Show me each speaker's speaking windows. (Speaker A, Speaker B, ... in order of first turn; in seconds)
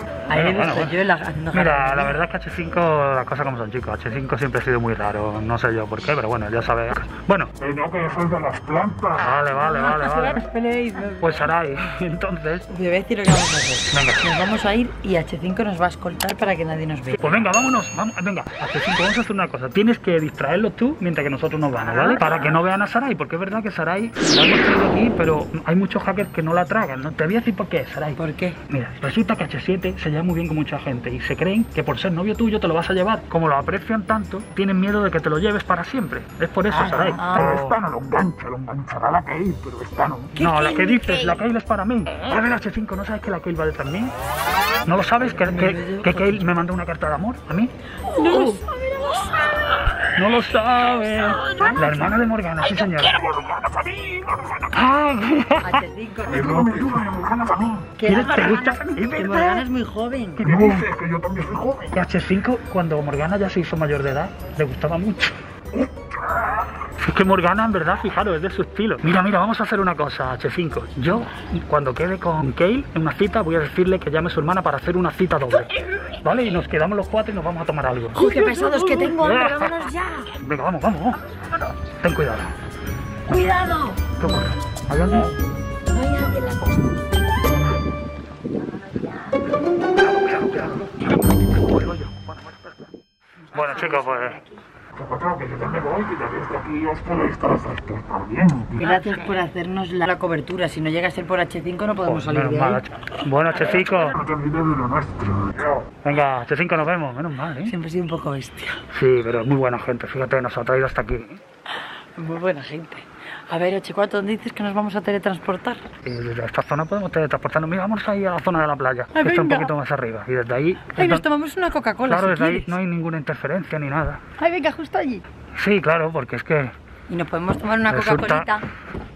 Speaker A: 0.3-2.2, 9.5-11.5, 12.7-17.4, 21.8-22.6, 28.2-28.6, 36.7-37.5, 40.4-41.5, 45.2-46.5, 48.1-50.0, 51.1-52.2, 55.6-57.2, 58.0-60.4, 78.1-80.3, 83.3-84.1, 85.9-86.9, 93.5-94.6, 98.8-102.8, 107.6-108.8, 112.2-115.8, 119.1-119.7, 121.0-122.8, 124.4-125.2, 127.1-128.7
Speaker B: 0.3-0.9, 1.5-7.5, 9.2-10.4, 11.2-12.7, 13.9-14.3, 17.2-37.8, 40.4-44.1, 44.9-47.7, 50.0-53.2, 54.8-55.9, 58.0-59.6, 60.4-60.9, 61.9-65.4, 67.0-79.8, 80.3-81.2, 81.9-82.5, 83.3-85.3, 90.0-92.9, 93.5-94.4, 102.0-104.2, 106.0-107.7, 108.9-111.4, 116.0-121.3, 122.1-124.2, 125.5-126.8, 127.9-128.5
Speaker C: 7.6-9.4, 37.3-40.4, 52.8-54.9, 56.2-58.0, 60.4-62.0, 65.7-66.8, 95.0-98.9, 103.6-105.8